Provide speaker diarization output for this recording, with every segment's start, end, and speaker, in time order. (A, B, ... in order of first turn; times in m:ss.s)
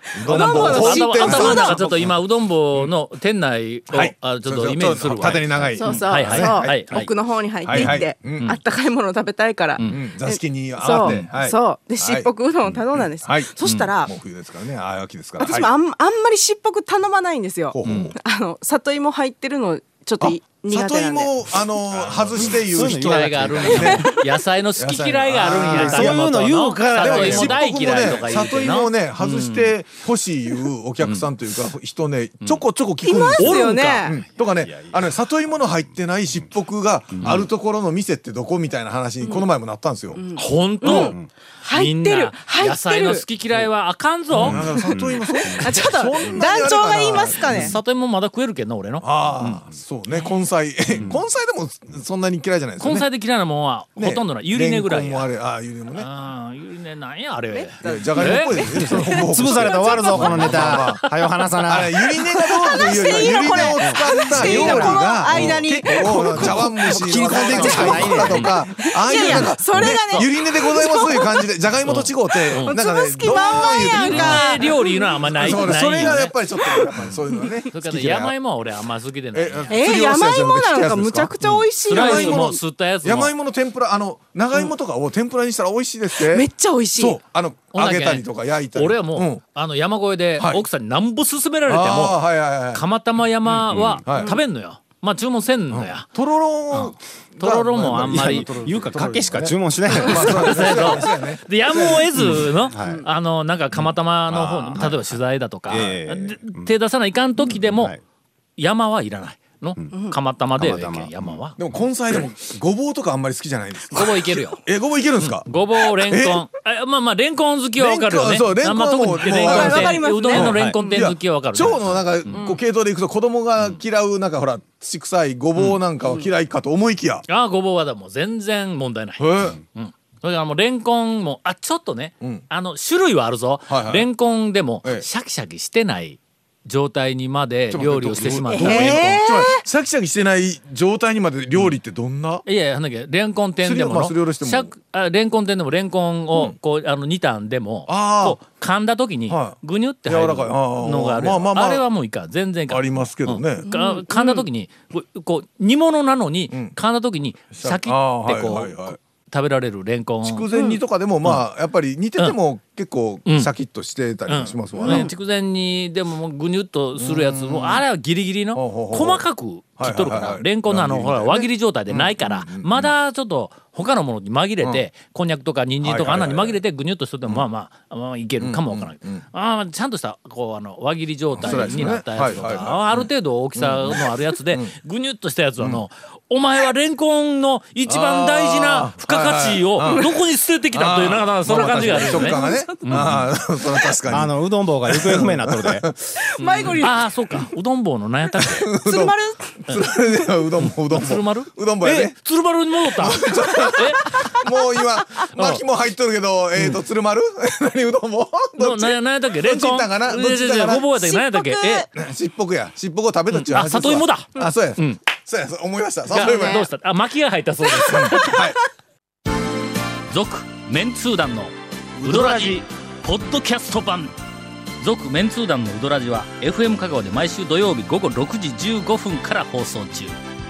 0:00.1-0:01.8 A
0:00.1-0:02.1 B
0:00.3-0:07.1 C
0:03.9-0:07.1 B
0:05.8-0:14.1 A
0:07.6-0:08.5 B
0:07.7-0:08.6 C
0:09.9-0:12.3 B
0:13.1-0:15.7 B
0:15.4-0:21.5 A
0:17.7-0:18.2 B
0:20.2-0:24.2 B
0:22.3-0:24.1 D
0:22.4-0:29.7 C
0:23.7-0:24.3 A
0:24.8-0:26.2 B
0:25.5-0:28.1 D
0:27.0-0:40.2 B
0:33.0-0:34.2 A
0:33.4-0:34.2 C
0:34.6-0:35.1 D
0:37.2-0:37.5 D
0:40.2-0:43.2 A
0:40.4-0:41.2 C
0:40.9-0:41.3 D
0:41.7-0:44.6 C
0:44.3-0:47.8 B
0:44.4-0:45.8 D
0:45.3-0:47.8 A
0:47.5-0:50.3 C
0:49.0-0:53.1 B
0:52.8-0:55.3 C
0:54.0-0:56.1 B
0:55.9-0:58.7 C
0:57.5-1:00.5 A
0:57.8-1:01.1 B
0:58.8-1:02.1 D
1:00.1-1:01.1 C
1:01.6-1:14.5 B
1:02.2-1:11.5 A
1:03.7-1:08.5 D
1:07.6-1:08.5 C
1:09.8-1:10.3 C
1:11.9-1:12.8 C
1:12.3-1:16.0 A
1:13.8-1:16.4 C
1:15.2-1:18.4 B
1:17.7-1:19.9 C
1:19.3-1:29.4 B
1:19.7-1:22.6 A
1:21.8-1:23.3 C
1:26.1-1:27.2 A
1:27.7-1:36.1 C
1:30.4-1:30.6 B
1:31.7-1:32.8 B
1:33.4-1:34.4 B
1:33.7-1:34.0 D
1:35.7-1:42.6 B
1:36.7-1:38.5 C
1:38.0-1:41.0 D
1:39.9-1:47.9 C
1:42.3-1:43.1 D
1:44.3-1:45.0 D
1:44.3-1:44.9 B
1:45.7-1:46.7 D
1:47.4-1:48.0 D
1:48.6-1:51.6 C
1:50.6-1:51.4 D
1:51.6-1:56.4 B
1:53.9-1:54.7 C
1:55.2-2:02.4 C
1:57.8-2:07.2 B
1:59.3-2:01.1 A
2:02.3-2:02.6 A
2:07.3-2:19.2 C
2:09.2-2:09.6 B
2:13.7-2:14.1 B
2:17.7-2:22.4 B
2:18.5-2:19.6 A
2:22.4-2:40.4 C
2:23.6-2:24.7 B
2:27.9-2:28.4 B
2:29.3-2:31.9 B
2:32.7-2:33.7 B
2:33.7-2:34.4 A
2:36.5-2:36.8 B
2:37.5-2:39.0 B
2:40.2-2:45.1 B
2:40.5-2:40.8 A
2:43.3-2:43.5 C
2:44.3-3:13.2 C
2:44.7-2:45.1 A
2:47.0-2:47.9 B
2:48.5-2:49.2 B
2:49.8-2:52.9 B
2:55.8-2:56.6 B
2:58.4-2:59.2 B
3:01.4-3:04.7 B
3:07.9-3:10.2 B
3:10.7-3:17.4 B
3:11.7-3:13.0 A
3:13.0-3:13.2 D
3:14.1-3:15.9 D
3:16.2-3:17.0 A
3:16.4-3:18.7 C
3:18.4-3:19.2 B
3:18.8-3:19.6 A
3:19.7-3:22.2 B
3:20.7-3:24.4 C
3:21.8-3:22.1 D
3:22.8-3:30.9 B
3:24.1-3:24.4 A
3:28.6-3:31.9 C
3:30.8-3:31.9 A
3:31.9-3:36.7 B
3:33.3-3:35.0 C
3:36.1-3:38.4 C
3:36.2-3:36.7 A
3:37.8-3:38.6 B
3:38.1-3:38.5 A
3:40.1-3:41.5 C
3:42.0-3:42.6 D
3:42.0-3:44.1 C
3:44.8-3:50.2 C